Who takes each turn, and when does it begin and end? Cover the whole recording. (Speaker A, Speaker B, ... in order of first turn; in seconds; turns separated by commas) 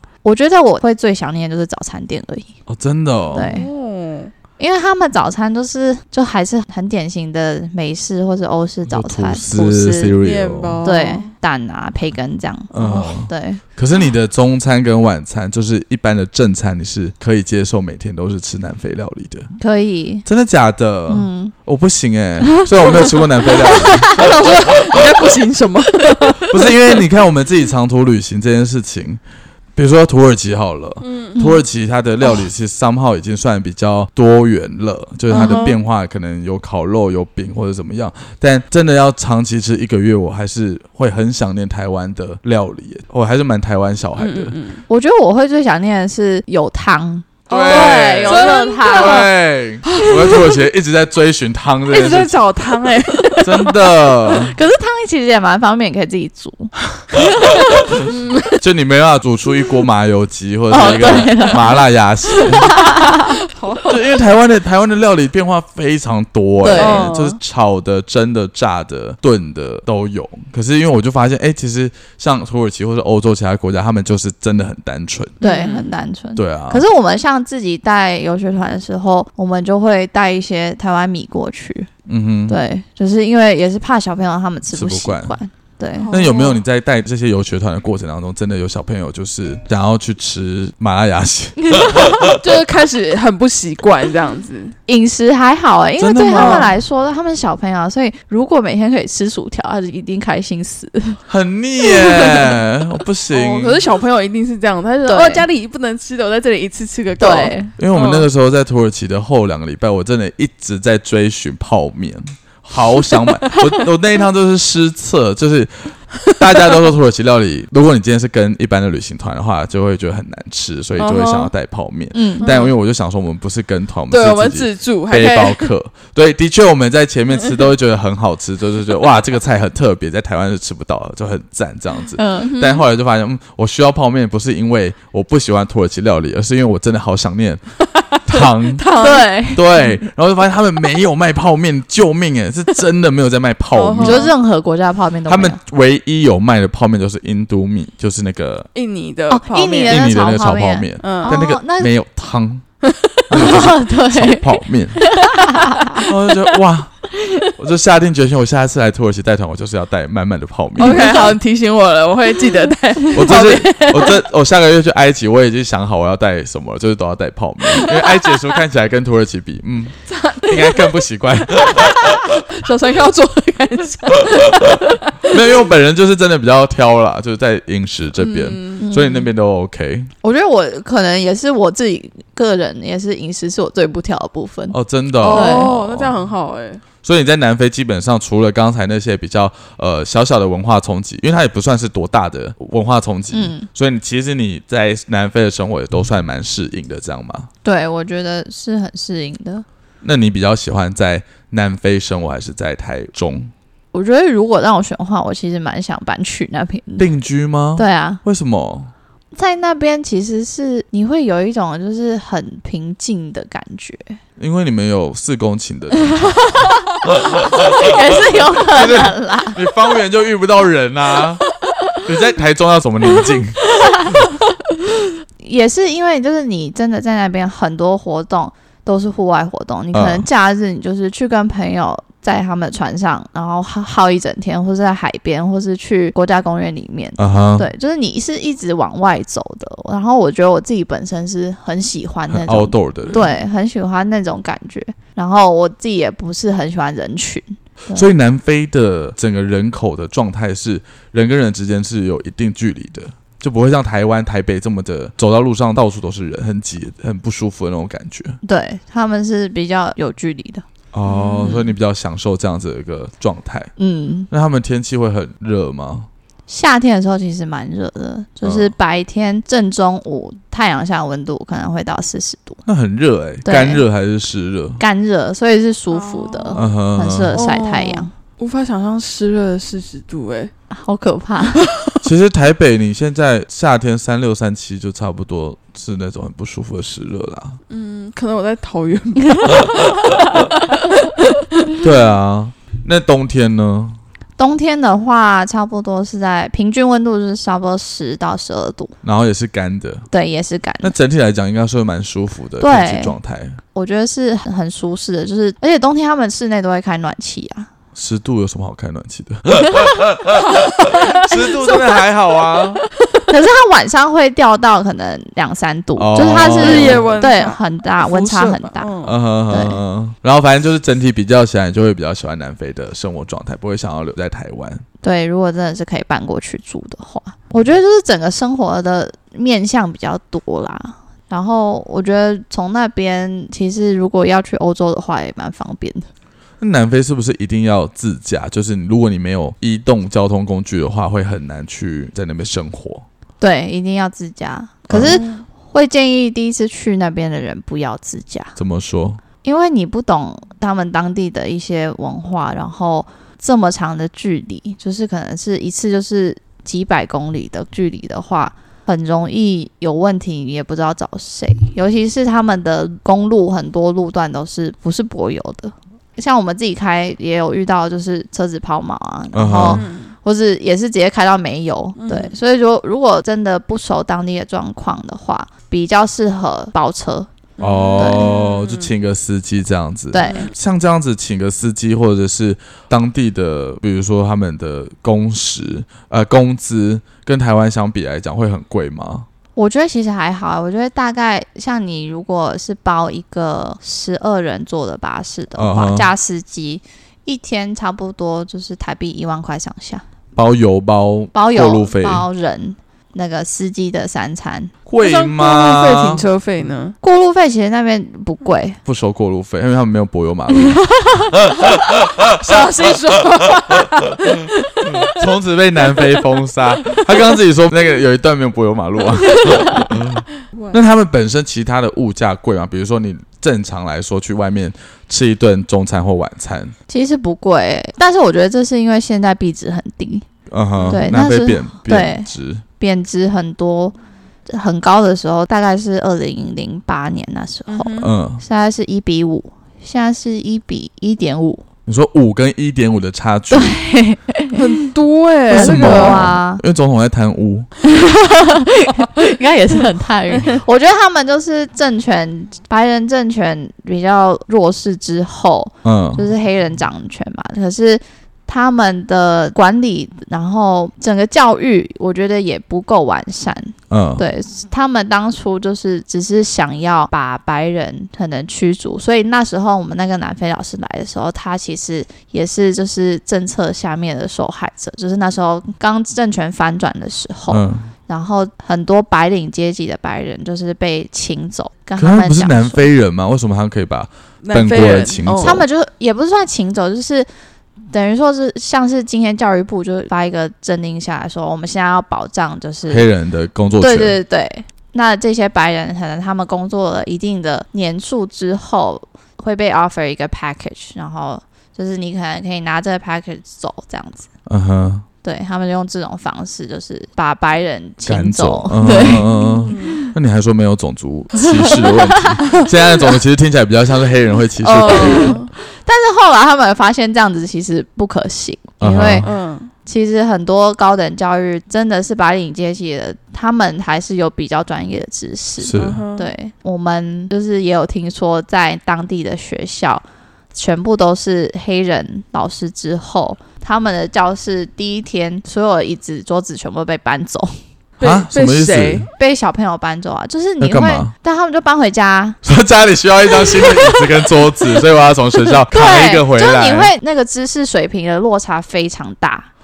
Speaker A: 0.2-2.5, Speaker B: 2.7-3.5, Speaker A: 3.3-3.7, Speaker C: 3.4-4.3, Speaker A: 4.6-10.2, Speaker B: 8.9-10.8, Speaker C: 10.2-11.3, Speaker A: 10.8-13.6, Speaker B: 12.7-19.5, Speaker A: 19.6-20.2, Speaker B: 20.2-25.0, Speaker A: 21.1-21.5, Speaker A: 22.5-25.0, Speaker C: 23.7-26.7, Speaker B: 26.5-29.2, Speaker B: 29.8-44.5, Speaker C: 31.0-31.4, Speaker C: 35.3-35.8, Speaker C: 44.2-44.8, Speaker A: 44.9-49.3, Speaker C: 47.5-49.3, Speaker B: 47.5-52.4, Speaker C: 49.9-50.6, Speaker C: 51.9-53.8, Speaker B: 53.4-54.5, Speaker A: 54.3-56.7, Speaker A: 57.4-57.8, Speaker C: 57.4-58.6, Speaker B: 58.6-62.8, Speaker A: 60.7-61.8, Speaker C: 60.8-61.6, Speaker C: 62.4-64.2, Speaker A: 62.4-63.4, Speaker B: 63.9-75.4, Speaker A: 66.6-67.1, Speaker C: 66.7-67.4, Speaker C: 75.4-75.9, Speaker A: 75.4-81.9, Speaker B: 76.3-76.8, Speaker B: 82.1-82.6, Speaker A: 82.5-86.1, Speaker B: 84.7-85.3, Speaker C: 86.0-86.6, Speaker B: 86.1-92.4, Speaker A: 91.6-92.1, Speaker C: 92.3-94.8, Speaker A: 94.9-101.2, Speaker B: 96.0-96.7, Speaker C: 96.3-96.7, Speaker B: 101.3-103.8, Speaker A: 101.8-102.4, Speaker C: 103.3-108.3, Speaker A: 105.0-105.5, Speaker A: 107.2-107.7, Speaker B: 107.8-137.6, Speaker C: 121.0-121.5, Speaker A: 122.1-122.5, Speaker C: 122.4-122.7, Speaker C: 124.1-125.7, Speaker A: 132.2-132.5, Speaker C: 132.4-132.8, Speaker C: 137.9-139.3, Speaker B: 138.2-138.9, Speaker A: 138.9-139.9, Speaker B: 139.5-144.3, Speaker C: 143.7-144.3, Speaker A: 144.0-145.6, Speaker B: 145.3-148.7, Speaker C: 148.7-150.0, Speaker A: 149.3-151.9, Speaker B: 149.9-152.6, Speaker C: 151.0-151.3, Speaker C: 152.8-153.3, Speaker B: 153.3-155.0, Speaker A: 153.3-156.1, Speaker C: 155.5-156.0, Speaker B: 156.0-161.1, Speaker C: 160.8-164.2, Speaker A: 160.8-161.3, Speaker B: 163.1-172.0, Speaker C: 167.8-168.4, Speaker C: 170.1-175.4, Speaker B: 175.2-180.1, Speaker C: 178.2-178.8, Speaker A: 178.8-179.3, Speaker A: 180.2-184.8, Speaker B: 184.7-186.2, Speaker C: 185.2-186.8, Speaker A: 185.3-185.7, Speaker B: 187.0-197.5, Speaker A: 193.3-193.7, Speaker A: 197.6-199.6, Speaker B: 200.0-203.5, Speaker A: 203.9-207.1, Speaker B: 207.0-208.9, Speaker A: 207.8-208.2, Speaker A: 209.3-214.2, Speaker B: 214.4-221.4, Speaker A: 216.6-219.6, Speaker B: 222.0-224.2, Speaker A: 223.8-224.2, Speaker A: 225.4-248.1, Speaker B: 229.9-230.3, Speaker B: 237.2-237.7, Speaker B: 242.3-243.2, Speaker B: 247.9-258.4, Speaker A: 258.4-260.6, Speaker B: 260.9-263.7, Speaker C: 261.1-261.6, Speaker A: 263.8-264.3, Speaker B: 264.3-266.1, Speaker A: 266.5-272.6, Speaker B: 268.4-268.7, Speaker B: 272.6-274.8, Speaker A: 273.4-273.8, Speaker A: 274.8-278.1, Speaker C: 275.9-276.6, Speaker B: 276.6-277.4, Speaker C: 277.3-280.5, Speaker A: 280.7-281.7, Speaker B: 282.0-287.6, Speaker C: 287.7-291.8, Speaker B: 291.8-294.0, Speaker A: 294.4-298.9, Speaker B: 299.0-300.1, Speaker A: 300.1-300.9, Speaker B: 300.8-303.6, Speaker A: 302.6-303.1, Speaker A: 303.7-307.7, Speaker B: 307.9-312.8, Speaker C: 310.4-311.8, Speaker A: 313.2-318.9, Speaker B: 316.0-317.1, Speaker C: 316.5-319.2, Speaker B: 319.0-324.8, Speaker A: 319.5-319.8, Speaker A: 325.0-336.1, Speaker B: 336.6-343.0, Speaker A: 343.4-348.5, Speaker B: 344.9-345.2, Speaker C: 345.0-345.4, Speaker B: 348.6-349.2, Speaker A: 349.4-377.3, Speaker B: 369.3-369.8, Speaker C: 369.6-370.1, Speaker C: 372.0-372.3, Speaker C: 377.6-378.9, Speaker B: 377.6-389.3, Speaker A: 378.0-378.3, Speaker A: 380.1-380.5, Speaker C: 380.2-380.5, Speaker A: 389.6-400.0, Speaker B: 395.5-396.1, Speaker B: 400.4-402.2, Speaker A: 401.3-404.7, Speaker B: 404.9-406.2, Speaker C: 405.0-406.9, Speaker A: 407.0-408.8, Speaker B: 408.8-410.9, Speaker A: 411.0-411.3, Speaker C: 411.6-415.1, Speaker B: 414.9-426.7, Speaker A: 426.9-430.2, Speaker B: 430.5-432.6, Speaker C: 430.8-431.0, Speaker A: 430.9-432.3, Speaker A: 432.8-433.9, Speaker A: 434.5-441.6, Speaker C: 437.7-438.1, Speaker B: 438.0-438.4, Speaker B: 441.9-443.8, Speaker A: 443.5-444.9, Speaker C: 444.6-446.2, Speaker A: 445.5-446.6, Speaker B: 445.5-447.7, Speaker A: 447.8-482.9, Speaker B: 455.8-456.2, Speaker B: 463.9-464.2, Speaker B: 477.5-477.9, Speaker B: 482.0-485.6, Speaker C: 484.4-485.6, Speaker A: 485.4-487.3, Speaker A: 487.9-493.1, Speaker B: 492.9-494.2, Speaker A: 493.8-504.3, Speaker B: 504.4-505.0, Speaker A: 505.2-510.1, Speaker B: 508.1-515.4, Speaker C: 508.8-510.0, Speaker A: 511.6-512.6, Speaker C: 514.6-515.5, Speaker A: 514.8-519.3, Speaker B: 518.8-519.2, Speaker C: 519.2-519.7, Speaker A: 519.8-537.6, Speaker B: 525.6-526.0, Speaker C: 525.7-526.3, Speaker C: 538.0-539.1, Speaker B: 538.0-539.1, Speaker A: 539.2-542.4, Speaker B: 540.6-541.1, Speaker B: 542.4-546.9, Speaker A: 543.6-543.9, Speaker A: 545.7-549.5